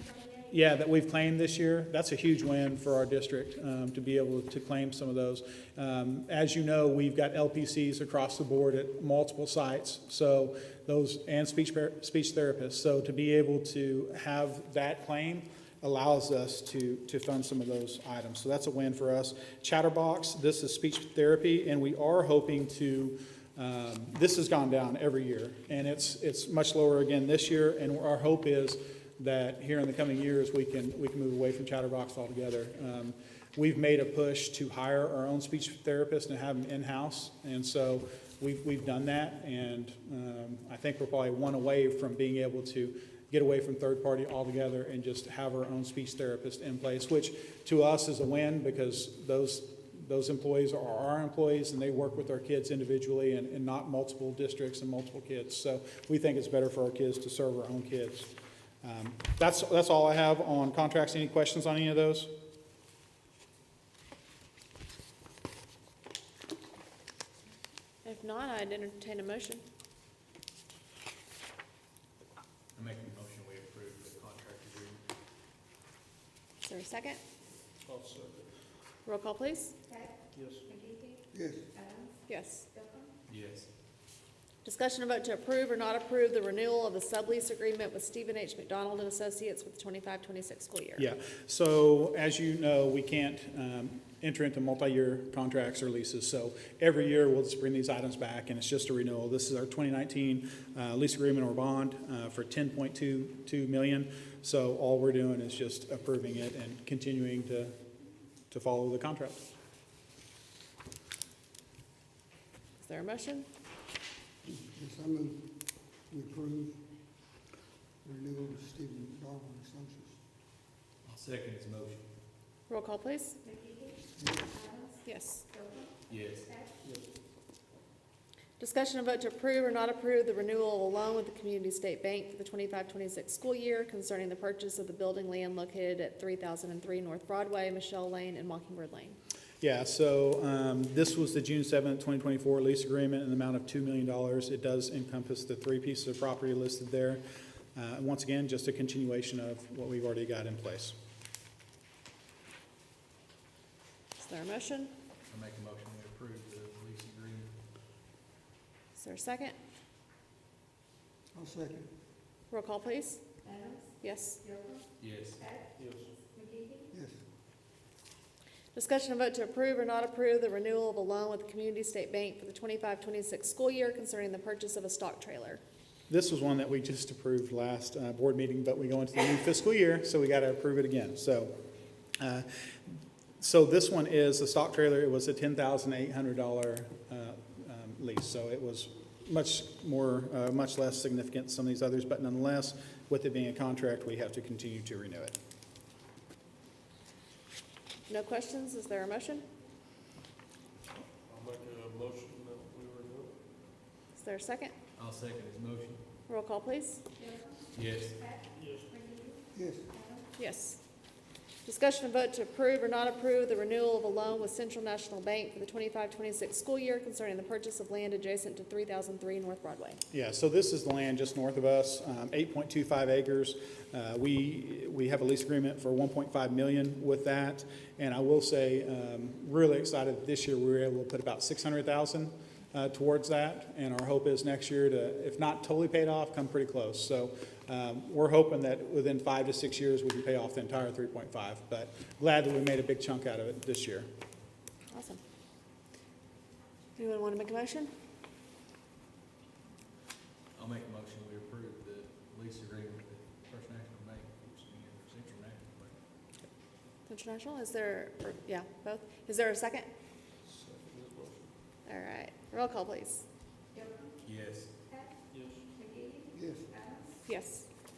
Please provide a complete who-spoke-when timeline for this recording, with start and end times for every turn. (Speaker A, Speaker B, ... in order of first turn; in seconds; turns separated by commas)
Speaker A: 0.5-62.3, Speaker B: 68.0-69.6, Speaker C: 72.8-75.0, Speaker B: 76.6-77.2, Speaker D: 77.8-78.5, Speaker B: 79.1-79.8, Speaker D: 80.3-80.7, Speaker E: 81.3-81.7, Speaker B: 82.3-82.7, Speaker C: 83.3-83.7, Speaker B: 84.6-91.0, Speaker A: 91.0-107.8, Speaker A: 108.5-109.4, Speaker B: 112.8-113.5, Speaker E: 114.5-116.9, Speaker E: 118.0-120.2, Speaker C: 121.0-122.0, Speaker B: 122.7-123.4, Speaker E: 124.2-124.6, Speaker B: 125.0-125.5, Speaker C: 126.1-126.5, Speaker B: 128.6-139.2, Speaker A: 139.6-147.2, Speaker A: 147.8-150.9, Speaker B: 154.2-154.9, Speaker C: 155.3-157.5, Speaker B: 159.0-159.6, Speaker E: 161.3-161.9, Speaker B: 162.5-163.2, Speaker B: 164.0-164.4, Speaker C: 165.0-165.5, Speaker D: 165.8-166.1, Speaker E: 166.9-167.2, Speaker B: 168.7-175.6, Speaker A: 176.1-181.6, Speaker A: 182.2-182.5, Speaker A: 183.4-195.4, Speaker B: 198.1-199.4, Speaker D: 201.3-203.4, Speaker B: 204.2-204.7, Speaker C: 205.0-206.0, Speaker B: 206.3-207.1, Speaker C: 207.7-208.3, Speaker D: 208.5-209.0, Speaker E: 209.5-209.9, Speaker B: 210.4-210.8, Speaker B: 211.7-220.0, Speaker A: 220.1-244.1, Speaker B: 244.9-245.2, Speaker B: 247.0-247.9, Speaker C: 250.6-255.9, Speaker B: 257.1-259.9, Speaker D: 260.4-261.5, Speaker B: 261.9-263.2, Speaker C: 264.2-264.7, Speaker D: 265.3-265.6, Speaker E: 266.3-266.8, Speaker B: 267.3-267.7